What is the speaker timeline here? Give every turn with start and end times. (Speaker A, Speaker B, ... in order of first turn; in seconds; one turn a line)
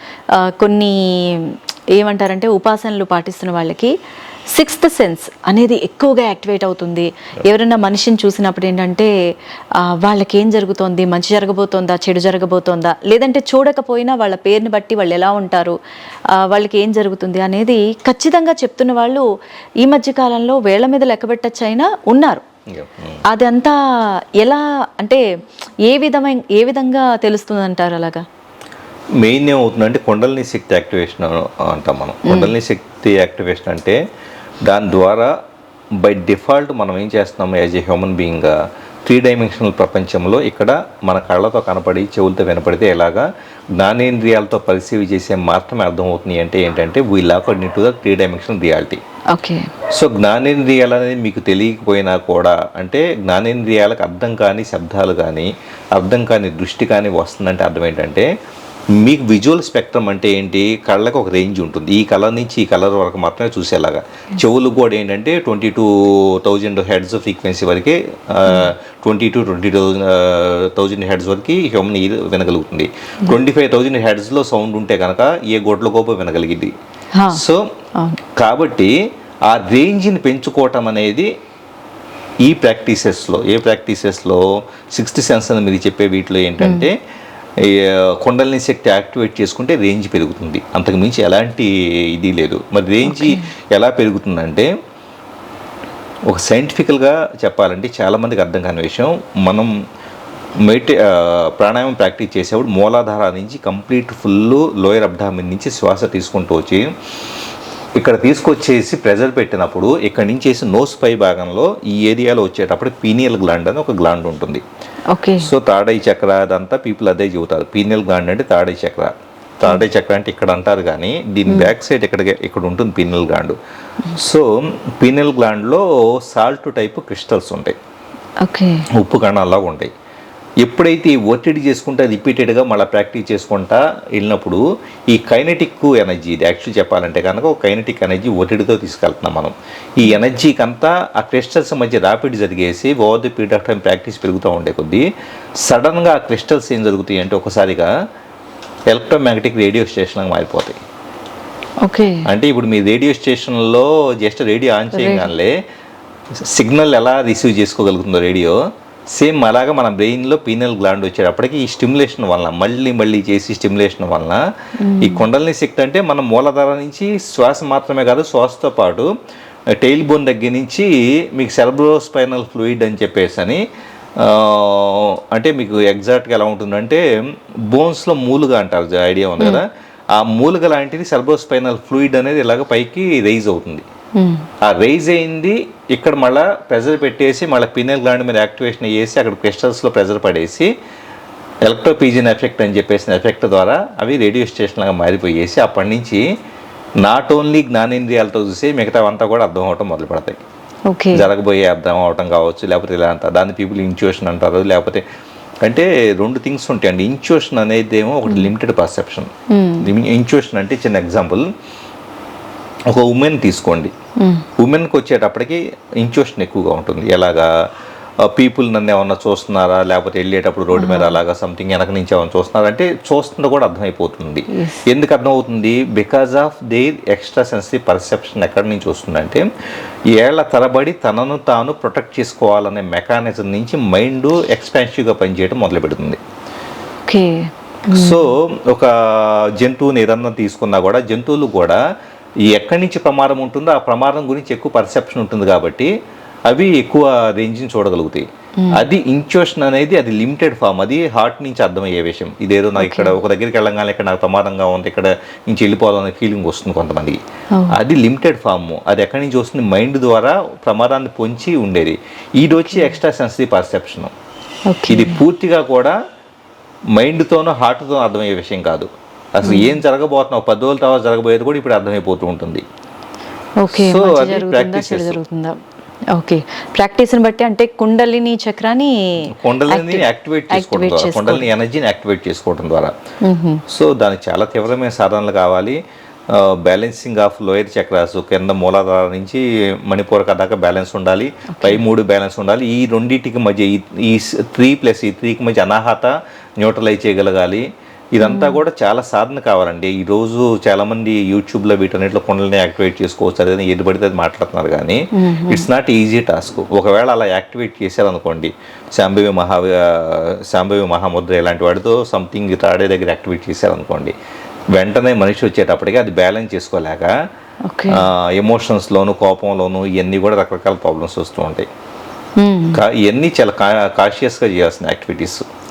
Speaker A: 0.4-3.9
Speaker A: 4.5-9.1
Speaker A: 9.8-15.8
Speaker A: 16.4-19.2
Speaker A: 19.8-22.4
Speaker B: 22.7-23.2
Speaker A: 23.3-23.8
Speaker A: 24.4-25.2
Speaker A: 25.9-28.2
Speaker B: 29.2-34.0
Speaker A: 32.3-32.5
Speaker B: 34.6-35.3
Speaker B: 36.0-43.3
Speaker B: 43.8-49.0
Speaker A: 49.3-49.7
Speaker B: 49.9-58.3
Speaker B: 59.0-76.7
Speaker A: 77.2-77.4
Speaker B: 77.3-77.7
Speaker B: 78.4-78.9
Speaker B: 79.5-81.3
Speaker B: 82.4-87.0
Speaker A: 86.6-86.9
Speaker B: 87.6-94.7
Speaker A: 93.0-93.5
Speaker B: 96.3-99.7
Speaker B: 100.7-106.9
Speaker B: 108.0-114.6
Speaker A: 115.1-115.5
Speaker B: 115.4-123.6
Speaker B: 124.1-127.8
Speaker A: 128.4-128.8
Speaker B: 128.9-129.9
Speaker B: 130.6-145.1
Speaker B: 145.7-147.9
Speaker B: 148.9-150.8
Speaker A: 151.8-152.3
Speaker B: 152.3-155.5
Speaker A: 154.9-155.3
Speaker B: 156.5-158.6
Speaker B: 159.2-164.4
Speaker A: 164.8-165.3
Speaker B: 165.0-169.1
Speaker B: 169.8-173.6
Speaker B: 174.2-177.0
Speaker B: 177.7-179.7
Speaker B: 180.2-183.9
Speaker A: 184.2-184.5
Speaker B: 184.6-190.7
Speaker B: 191.7-196.2
Speaker B: 197.0-200.4
Speaker A: 200.9-201.3
Speaker B: 201.1-205.0
Speaker B: 205.7-209.3
Speaker A: 209.5-209.9
Speaker B: 209.8-211.5
Speaker B: 212.9-213.9
Speaker A: 214.2-214.4
Speaker B: 214.6-217.5
Speaker B: 218.2-229.5
Speaker A: 220.7-221.2
Speaker A: 224.5-224.8
Speaker B: 230.2-236.2
Speaker A: 237.1-238.3
Speaker B: 237.9-241.8
Speaker B: 242.5-245.9
Speaker B: 246.5-257.2
Speaker A: 252.8-253.1
Speaker B: 257.7-264.1
Speaker A: 262.6-262.9
Speaker A: 264.7-265.2
Speaker B: 264.9-266.0
Speaker B: 266.9-272.6
Speaker A: 269.4-269.7
Speaker A: 273.6-275.6
Speaker B: 273.7-275.2
Speaker A: 276.1-281.5
Speaker B: 279.3-282.9
Speaker A: 283.2-283.6
Speaker B: 283.7-285.8
Speaker B: 286.3-314.1
Speaker A: 298.2-298.6
Speaker A: 305.1-305.7
Speaker B: 314.8-317.1
Speaker A: 317.7-318.0
Speaker B: 317.9-321.7
Speaker A: 322.4-322.8
Speaker B: 322.7-325.4